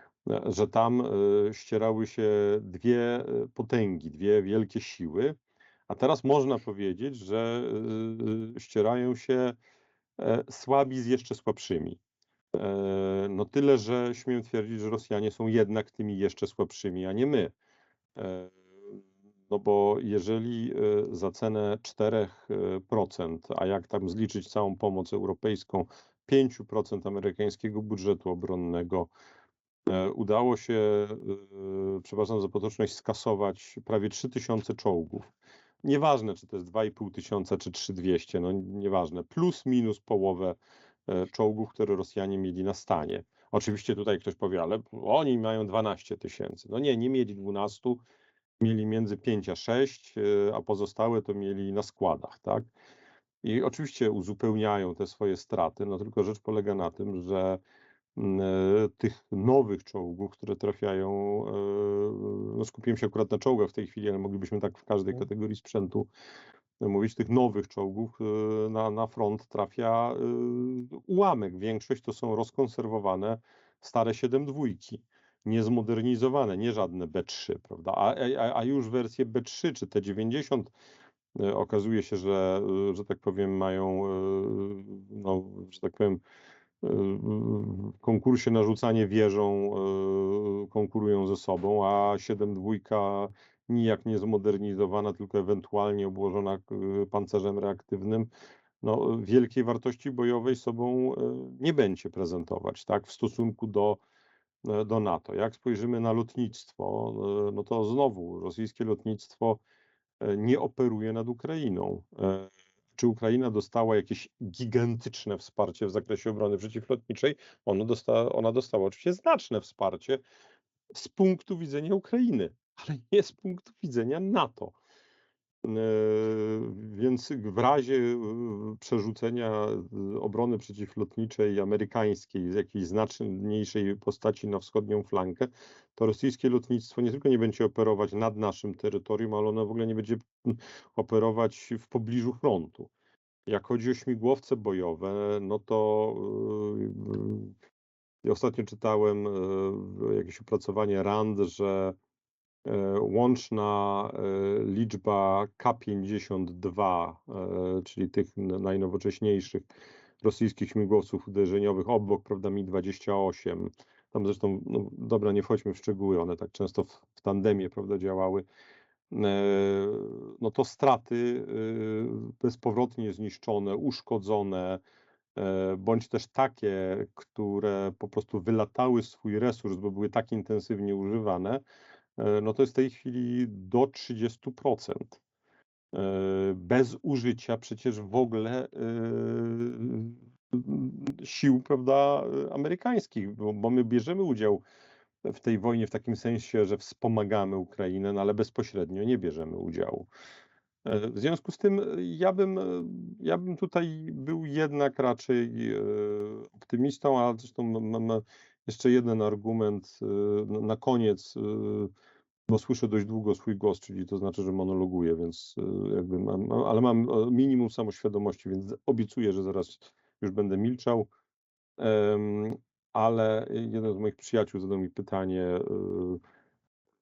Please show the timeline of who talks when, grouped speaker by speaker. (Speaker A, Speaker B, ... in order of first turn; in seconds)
Speaker A: 0.3-5.3, 5.9-9.6, 10.2-12.0, 12.5-17.5, 18.1-19.0, 19.5-29.1, 29.9-35.3, 35.8-40.5, 41.1-48.0, 48.6-52.7, 53.4-57.6, 58.1-66.1, 66.8-80.7, 81.3-86.2, 86.8-98.3, 98.8-104.0, 104.6-109.6, 110.2-120.2, 120.9-124.8, 125.6-142.9, 143.5-147.5, 148.2-151.9, 152.6-159.7, 160.2-168.4, 169.1-174.8, 175.3-181.6, 182.2-185.2, 185.9-194.6, 195.2-200.1, 200.8-211.9, 212.5-221.1, 221.8-226.2